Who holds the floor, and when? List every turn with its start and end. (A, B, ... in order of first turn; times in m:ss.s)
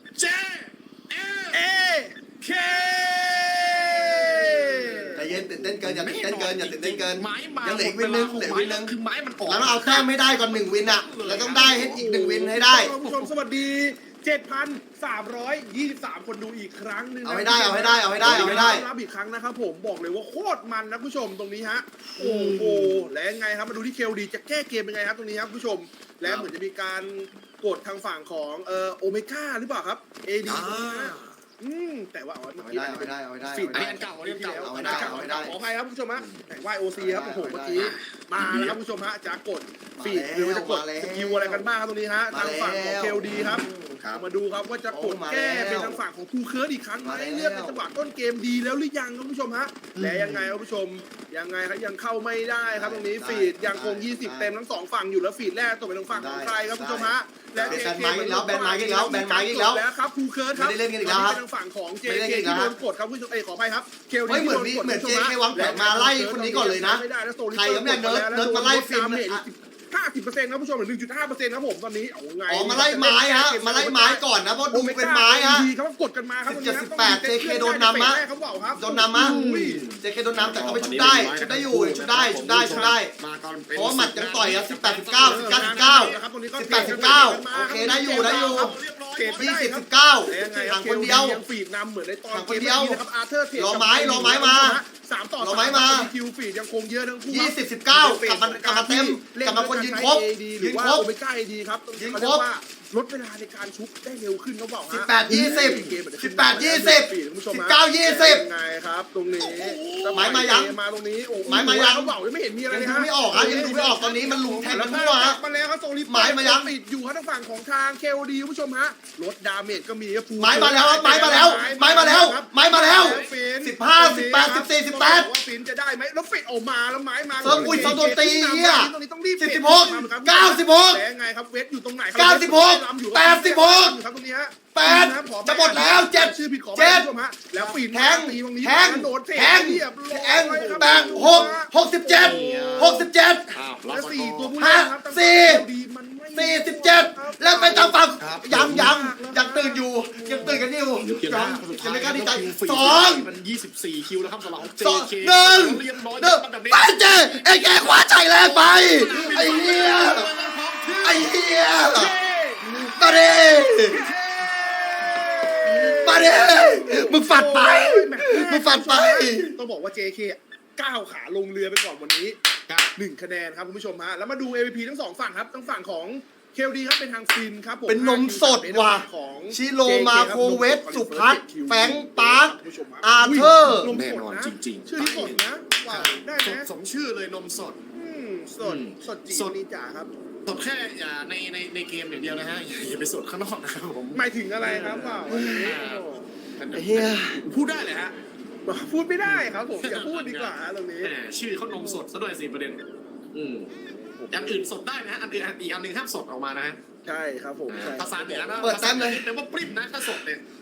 0:00.2-0:01.6 A
0:01.5-0:02.2 B
0:02.4-0:12.0 A
0:03.4-0:05.3 B
0:05.2-0:08.9 C
0:09.4-0:12.9 C
0:11.6-1:19.8 B
0:13.0-0:13.3 A
0:17.2-0:18.8 C
0:18.2-0:18.8 A
0:22.2-0:23.1 A
0:26.2-0:26.5 A
0:30.5-0:31.4 A
0:32.6-0:34.0 C
0:33.7-0:35.3 A
0:34.6-0:35.6 C
0:36.2-0:36.5 A
0:37.0-0:37.9 C
0:37.8-0:38.8 A
0:40.0-0:41.7 C
0:42.3-0:44.0 C
0:44.9-0:46.0 C
0:47.0-0:47.8 C
0:50.0-0:50.5 A
0:52.7-0:54.5 C
0:56.1-0:59.8 C
1:00.5-1:01.4 C
1:02.0-1:02.8 C
1:04.3-1:09.4 C
1:12.5-1:15.7 C
1:16.5-1:18.2 C
1:18.7-1:19.4 C
1:19.2-1:29.5 A
1:20.0-1:23.1 C
1:22.5-1:23.0 B
1:23.7-1:28.8 C
1:25.2-2:23.0 B
1:29.4-1:31.4 C
1:32.3-1:33.0 C
1:33.6-1:34.8 C
1:35.4-1:36.1 C
1:37.3-1:41.1 C
1:42.0-1:42.4 C
1:44.9-1:48.4 C
1:49.3-1:50.4 A
1:50.1-1:50.7 C
1:51.4-1:52.1 C
1:52.7-1:55.4 C
1:53.3-1:54.8 A
1:56.1-1:56.7 C
2:00.4-2:05.3 C
2:02.9-2:03.4 A
2:07.4-2:08.0 A
2:07.4-2:11.0 C
2:12.2-2:14.0 C
2:14.7-2:17.1 C
2:17.9-2:23.6 C
2:20.8-2:21.5 A
2:22.2-2:24.5 A
2:23.9-2:28.0 B
2:24.6-2:25.6 C
2:26.3-2:33.3 C
2:28.2-2:29.0 A
2:28.5-2:30.7 B
2:30.4-2:41.4 A
2:34.8-2:40.3 C
2:39.1-2:39.4 B
2:41.0-2:44.0 C
2:41.9-2:42.7 B
2:43.3-2:52.4 B
2:45.6-2:49.6 C
2:52.7-2:52.9 A
2:53.0-3:06.7 B
2:57.9-3:03.9 C
3:03.9-3:07.8 A
3:07.9-3:10.1 B
3:08.6-3:09.6 A
3:10.5-3:18.1 A
3:14.1-3:16.3 B
3:15.3-3:15.8 C
3:16.7-3:17.4 C
3:18.7-3:21.1 B
3:19.2-3:22.8 A
3:21.7-3:22.0 B
3:23.3-3:23.7 A
3:23.8-3:24.7 B
3:24.3-3:26.8 A
3:27.0-3:28.8 B
3:27.7-3:30.4 A
3:28.6-3:29.2 C